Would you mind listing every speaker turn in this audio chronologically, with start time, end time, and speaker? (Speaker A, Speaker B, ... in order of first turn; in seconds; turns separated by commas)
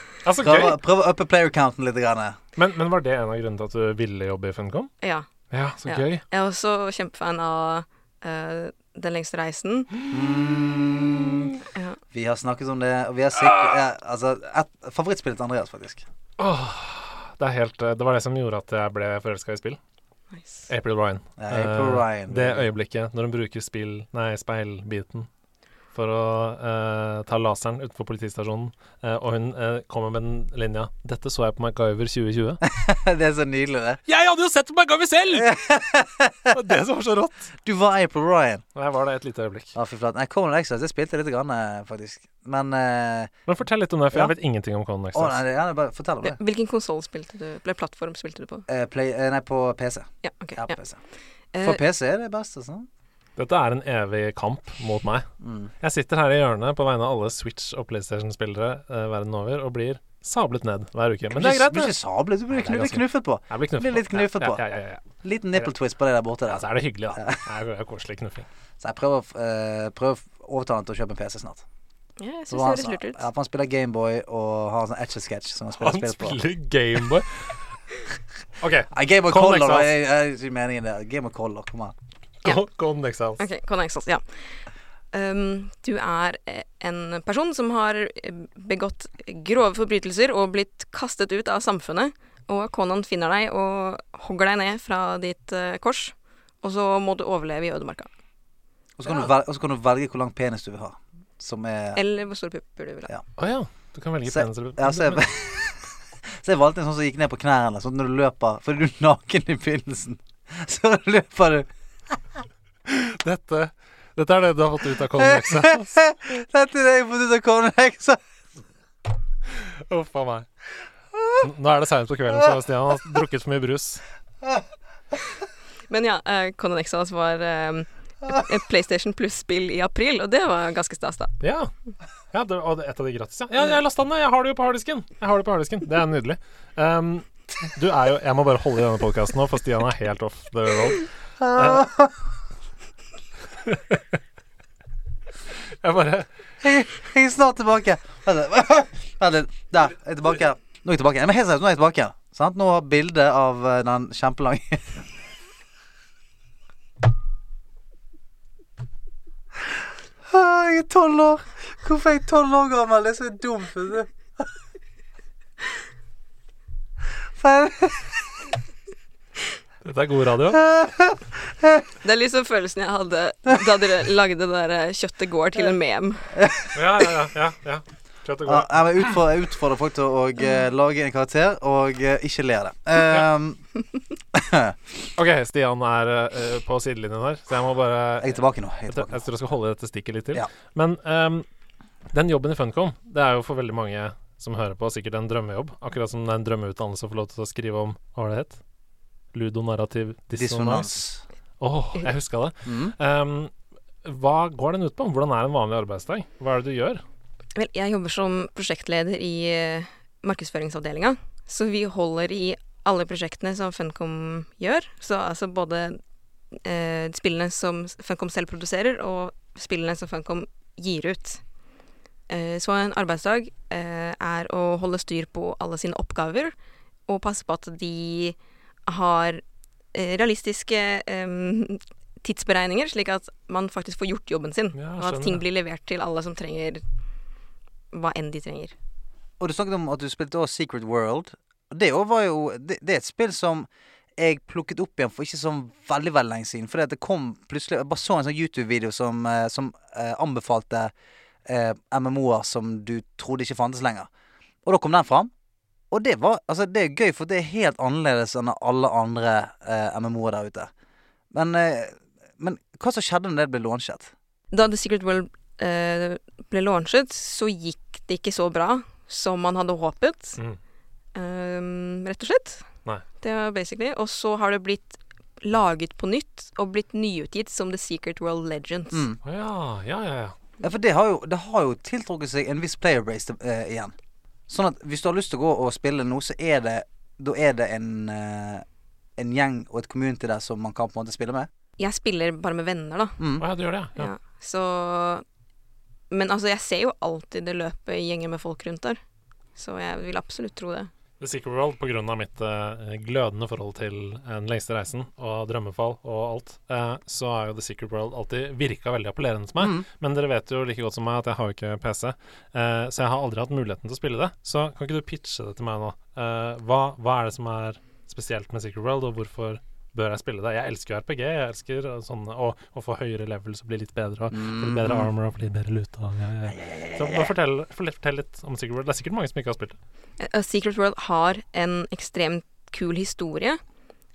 Speaker A: 0.2-0.8, Speaker B: 0.4-2.4, Speaker A: 2.5-4.9, Speaker C: 5.0-5.3, Speaker A: 5.5-6.2, Speaker C: 5.8-9.9, Speaker B: 10.1-11.6, Speaker B: 12.1-16.0, Speaker A: 13.4-13.8, Speaker A: 16.4-19.8, Speaker C: 20.3-20.7, Speaker A: 20.7-25.3, Speaker B: 21.4-22.7, Speaker A: 25.9-32.6, Speaker B: 32.6-34.0, Speaker A: 34.1-35.5, Speaker B: 35.3-36.5, Speaker A: 36.5-37.5, Speaker B: 37.6-38.6, Speaker A: 38.8-39.7, Speaker B: 39.7-43.3, Speaker A: 43.5-45.4, Speaker B: 45.1-46.4, Speaker C: 46.2-48.6, Speaker B: 48.7-51.0, Speaker C: 50.2-50.8, Speaker C: 51.5-51.8, Speaker B: 51.6-52.9, Speaker A: 53.4-55.3, Speaker B: 55.4-55.7, Speaker A: 55.8-61.9, Speaker B: 61.3-64.6, Speaker A: 62.5-65.0, Speaker B: 65.2-67.4, Speaker A: 66.5-68.5, Speaker B: 68.8-71.6, Speaker C: 72.2-73.2, Speaker B: 72.5-76.4, Speaker A: 75.8-77.3, Speaker A: 78.6-79.9, Speaker B: 78.9-81.9, Speaker A: 82.4-83.4, Speaker C: 83.4-84.2, Speaker C: 85.1-98.1, Speaker B: 99.0-102.0, Speaker C: 101.9-103.1, Speaker A: 103.4-105.2, Speaker B: 104.2-112.2, Speaker A: 112.8-115.9, Speaker B: 115.2-118.2, Speaker A: 119.5-120.5, Speaker A: 121.4-124.0, Speaker C: 125.9-131.3, Speaker A: 131.4-131.7, Speaker A: 132.3-141.8, Speaker B: 141.4-142.2, Speaker A: 143.7-144.0, Speaker A: 145.8-146.3, Speaker B: 146.6-155.1, Speaker B: 160.3-164.5, Speaker B: 167.3-168.3, Speaker A: 169.8-170.6, Speaker B: 170.5-171.8, Speaker C: 172.0-176.3, Speaker B: 176.3-177.0, Speaker A: 176.7-179.1, Speaker B: 178.4-183.6, Speaker B: 184.3-184.8, Speaker A: 185.2-191.4, Speaker B: 188.2-189.2, Speaker A: 192.1-198.6, Speaker A: 199.3-201.0, Speaker B: 200.3-201.2, Speaker A: 201.6-203.5, Speaker B: 202.6-202.9, Speaker A: 204.0-207.0, Speaker C: 207.5-216.0, Speaker C: 216.5-221.4, Speaker C: 222.3-226.5, Speaker C: 227.1-229.4, Speaker C: 229.9-236.8, Speaker A: 234.7-235.4, Speaker C: 237.9-238.7, Speaker B: 239.4-250.9, Speaker B: 251.4-254.1, Speaker B: 254.6-255.3, Speaker B: 255.9-260.7, Speaker B: 261.3-264.1, Speaker C: 264.5-270.4, Speaker C: 271.1-272.7, Speaker C: 273.2-279.1, Speaker B: 278.9-279.2, Speaker A: 279.2-280.4, Speaker B: 280.6-283.9, Speaker B: 284.5-288.6, Speaker B: 289.2-291.5, Speaker C: 291.8-293.2, Speaker B: 293.2-293.5, Speaker A: 293.4-294.1, Speaker C: 293.9-295.2, Speaker C: 296.1-299.0, Speaker C: 299.6-300.9, Speaker A: 301.2-329.8, Speaker B: 309.6-309.8, Speaker B: 324.3-325.1, Speaker B: 326.6-327.3, Speaker C: 330.2-333.6